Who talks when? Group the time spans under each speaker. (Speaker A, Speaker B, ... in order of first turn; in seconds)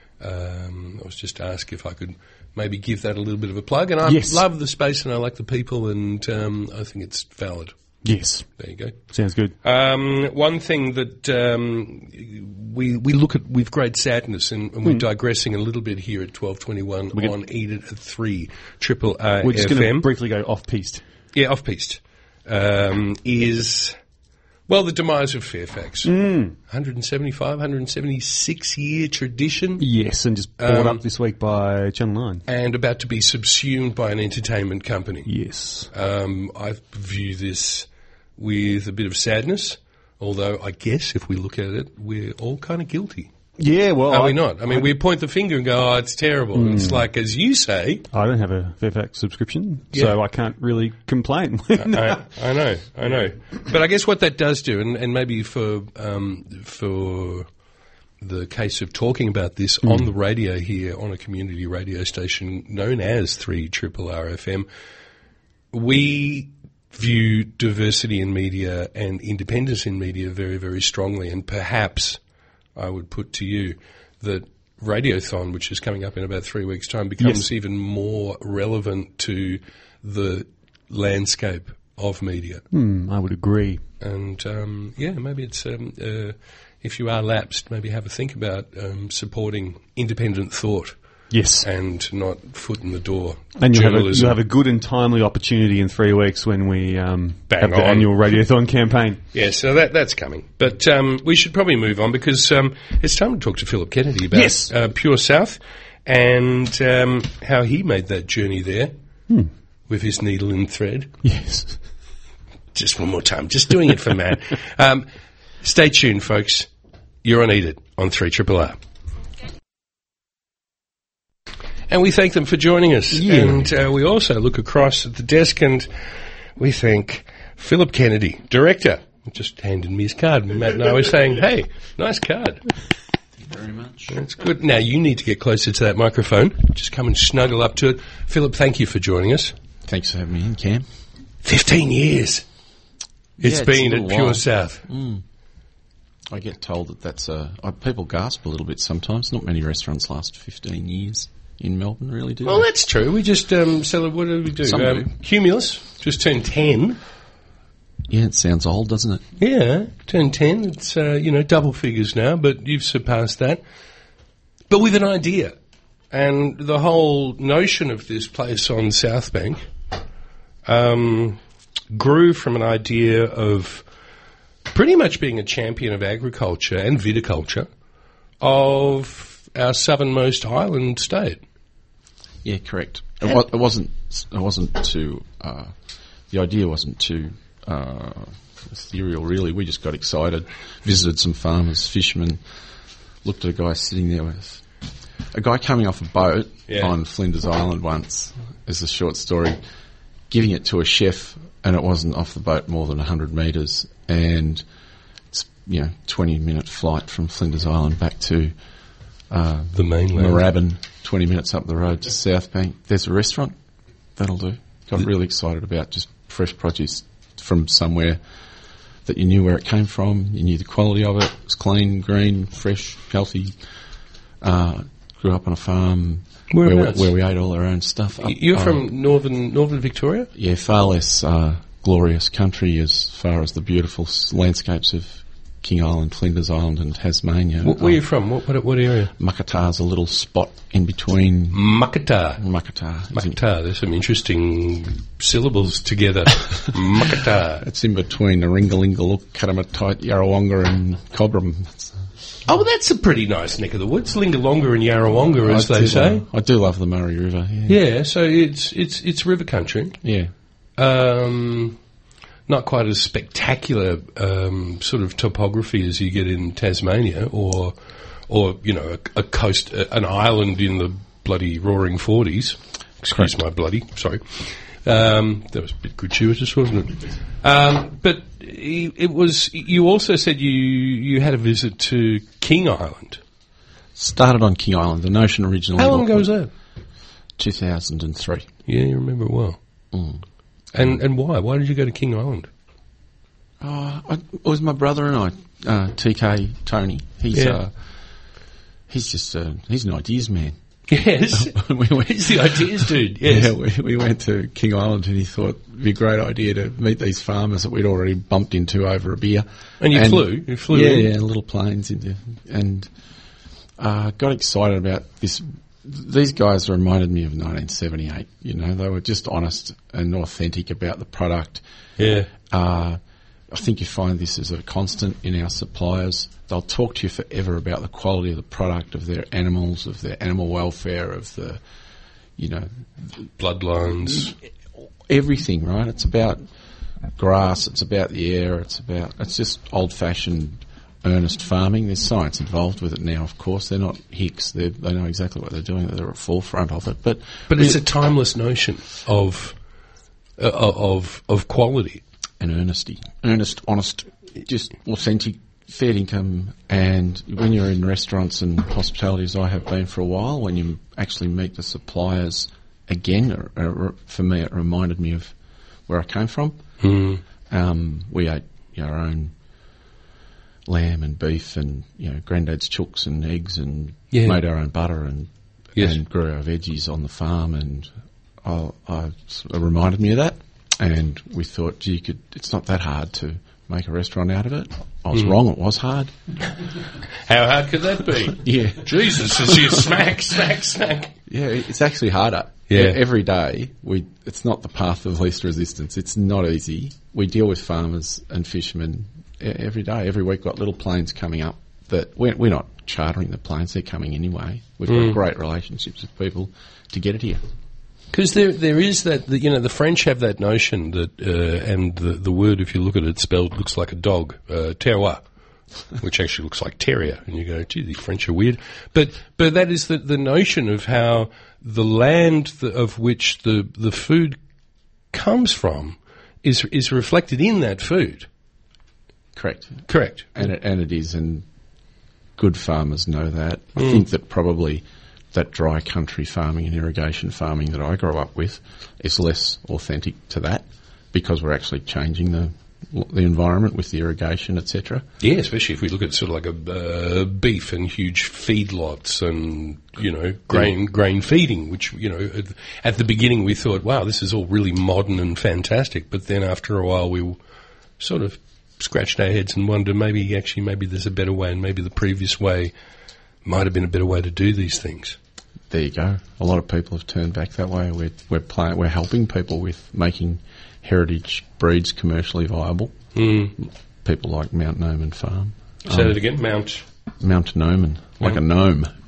Speaker A: 0.2-7.7, 8.6-8.9, 9.6-20.1, 21.3-23.9, 24.7-26.1, 26.7-29.8, 30.6-31.0, 32.5-35.3, 35.9-43.3, 44.1-48.1, 51.8-57.5, 58.2-64.7, 65.7-72.2, 72.8-82.6, 84.0-90.9, 91.6-94.4, 97.5-98.1, 99.3-108.9, 109.9-111.1, 112.7-115.0, 115.6-116.7, 117.2-118.8, 121.9-125.9, 126.6-132.6, 134.1-139.5, 141.4-142.4, 143.4-144.8, 152.4-157.0, 159.4-163.6, 164.7-165.5, 166.1-169.6, 170.7-171.4, 171.9-173.8, 174.7-177.7, 178.4-181.4, 209.7-210.4, 226.5-227.1, 228.2-230.3, 237.6-239.1, 241.5-242.4, 243.1-247.6, 252.5-256.2, 257.7-260.0, 260.8-261.8, 262.5-267.7, 268.3-283.2, 285.8-286.5, 288.7-289.6, 290.7-292.5, 297.3-297.6, 300.9-303.5, 309.8-311.1, 322.0-322.3, 333.4-334.3, 347.5-349.5, 350.4-352.0, 366.8-367.2, 374.1-374.4, 387.2-391.1, 392.7-393.0, 404.9-405.2, 408.1-415.2, 416.0-424.4, 425.1-428.3, 429.9-430.4, 433.8-434.0, 445.2-457.4, 458.0-462.7, 463.4-465.2, 473.1-473.5, 475.9-476.8
Speaker B: 4.0-4.4, 8.0-8.5, 9.1-9.5, 19.4-21.0, 26.0-26.5, 29.8-32.4, 35.3-35.9, 43.6-44.9, 46.5-47.0, 48.1-52.2, 59.8-60.1, 82.7-83.8, 91.3-91.7, 93.6-99.2, 104.3-104.7, 111.2-111.8, 123.1-123.7
Speaker C: 133.4-134.2, 139.8-140.8, 143.4-145.2, 146.3-152.7, 154.6-155.1, 158.1-159.2, 182.4-185.7, 186.3-192.4, 193.2-194.6, 195.3-199.6, 200.3-204.6, 205.3-208.5, 209.3-213.6, 214.2-218.2, 219.1-223.5, 224.4-228.8, 230.3-238.0, 239.2-241.6, 242.4-243.4, 247.6-252.0, 255.4-257.8, 260.0-260.3, 283.9-286.3, 287.4-288.5, 289.9-290.2, 293.6-297.7, 298.9-300.5, 301.3-312.9, 313.8-321.6, 322.5-323.0, 323.5-331.6, 332.4-332.8, 335.1-336.4, 337.1-347.8, 352.4-365.3, 365.9-366.6, 367.5-369.3, 370.7-377.9, 378.4-386.1, 388.3-389.8, 391.3-407.4, 429.3-431.4, 432.4-445.1, 465.7-472.9, 473.6-476.1, 477.2-478.9